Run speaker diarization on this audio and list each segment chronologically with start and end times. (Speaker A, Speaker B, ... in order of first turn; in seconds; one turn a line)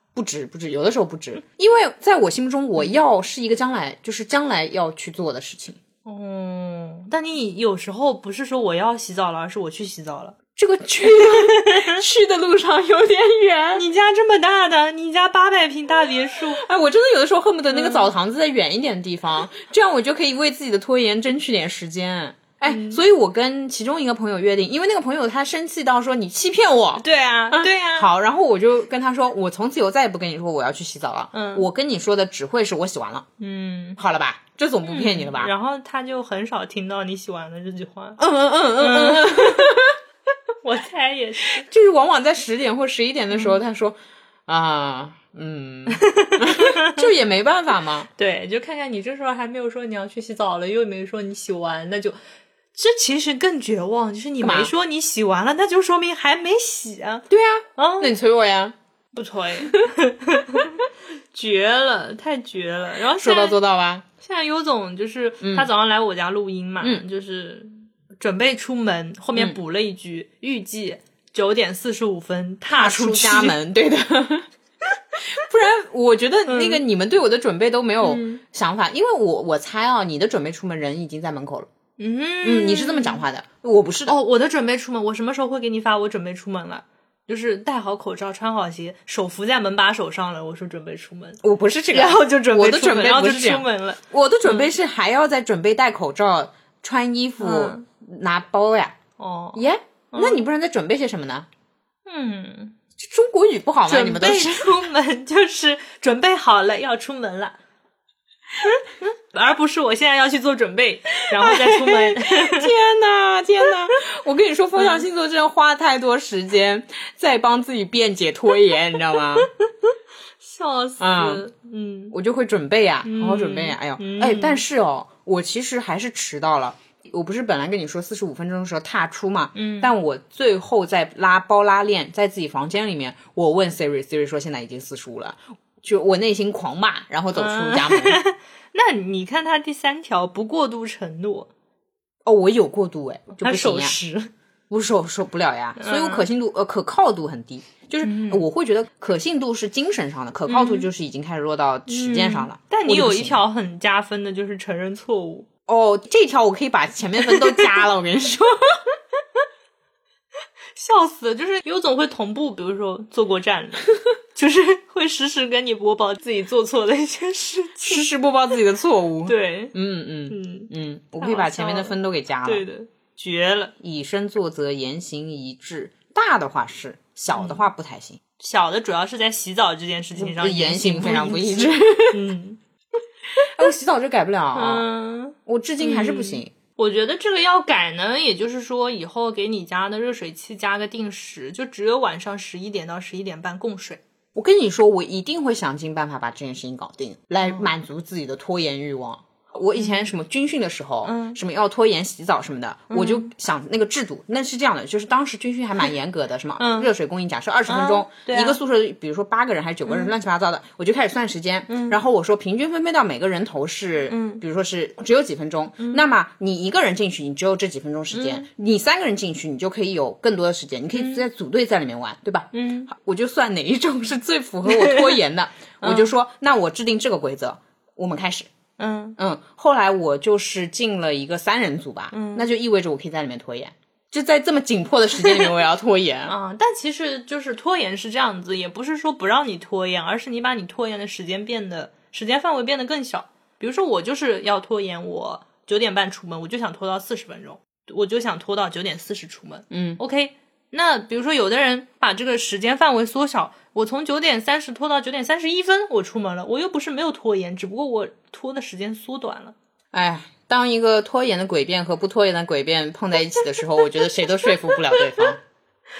Speaker A: 0.1-5.8
Speaker B: 6.0-10.3
Speaker A: 10.6-13.8
Speaker B: 11.0-12.0
Speaker B: 13.7-16.6
Speaker A: 16.6-33.3
Speaker B: 17.7-18.1
Speaker B: 22.6-23.0
Speaker B: 27.0-28.1
Speaker B: 31.3-31.6
Speaker B: 33.4-34.0
Speaker A: 34.0-35.5
Speaker B: 34.9-38.2
Speaker A: 38.2-40.0
Speaker B: 38.8-39.8
Speaker B: 40.6-41.6
Speaker A: 41.5-44.0
Speaker B: 43.3-43.6
Speaker A: 44.5-48.1
Speaker B: 45.9-47.1
Speaker B: 48.1-52.1
Speaker B: 52.7-57.2
Speaker A: 54.4-54.7
Speaker A: 57.3-58.7
Speaker B: 57.8-58.1
Speaker B: 59.1-63.6
Speaker A: 63.2-64.0
Speaker B: 64.2-73.6
Speaker A: 65.4-65.7
Speaker A: 72.7-74.5
Speaker A: 75.2-81.7
Speaker B: 76.5-76.8
Speaker B: 78.0-78.4
Speaker B: 82.0-83.2
Speaker A: 82.4-84.1
Speaker B: 84.0-91.4
Speaker A: 91.4-99.0
Speaker B: 91.9-94.7
Speaker B: 97.4-97.8
Speaker B: 99.2-100.4
Speaker A: 99.5-101.5
Speaker B: 102.0-102.8
Speaker A: 103.0-104.8
Speaker B: 103.8-107.6
Speaker B: 108.6-112.7
Speaker A: 111.3-119.5
Speaker B: 114.7-115.0
Speaker B: 119.3-122.1
Speaker A: 121.0-121.4
Speaker A: 122.1-138.2
Speaker B: 123.0-124.6
Speaker B: 129.5-129.9
Speaker B: 137.3-141.5
Speaker A: 142.2-144.0
Speaker B: 143.4-144.3
Speaker A: 144.7-153.4
Speaker B: 145.8-146.3
Speaker B: 148.0-148.4
Speaker B: 150.4-150.9
Speaker B: 151.9-155.5
Speaker A: 155.7-158.8
Speaker B: 157.2-157.8
Speaker B: 160.7-168.1
Speaker A: 167.8-172.6
Speaker B: 169.2-169.7
Speaker B: 170.3-173.7
Speaker A: 173.8-178.2
Speaker B: 177.3-177.7
Speaker B: 178.4-182.6
Speaker A: 180.2-182.3
Speaker A: 183.4-184.8
Speaker B: 184.5-194.0
Speaker A: 185.4-186.5
Speaker A: 194.3-228.5
Speaker B: 199.8-200.1
Speaker B: 201.0-201.4
Speaker B: 202.9-203.3
Speaker B: 206.6-206.9
Speaker B: 207.7-208.6
Speaker B: 209.9-210.1
Speaker B: 211.7-212.0
Speaker B: 214.1-214.4
Speaker B: 215.8-216.1
Speaker B: 218.1-218.5
Speaker B: 220.9-221.2
Speaker B: 222.5-222.9
Speaker B: 224.7-225.2
Speaker B: 225.8-226.1
Speaker B: 228.8-229.2
Speaker A: 229.2-236.3
Speaker B: 232.1-232.5
Speaker B: 236.2-259.5
Speaker A: 249.7-250.0
Speaker A: 259.9-265.4
Speaker B: 264.4-265.3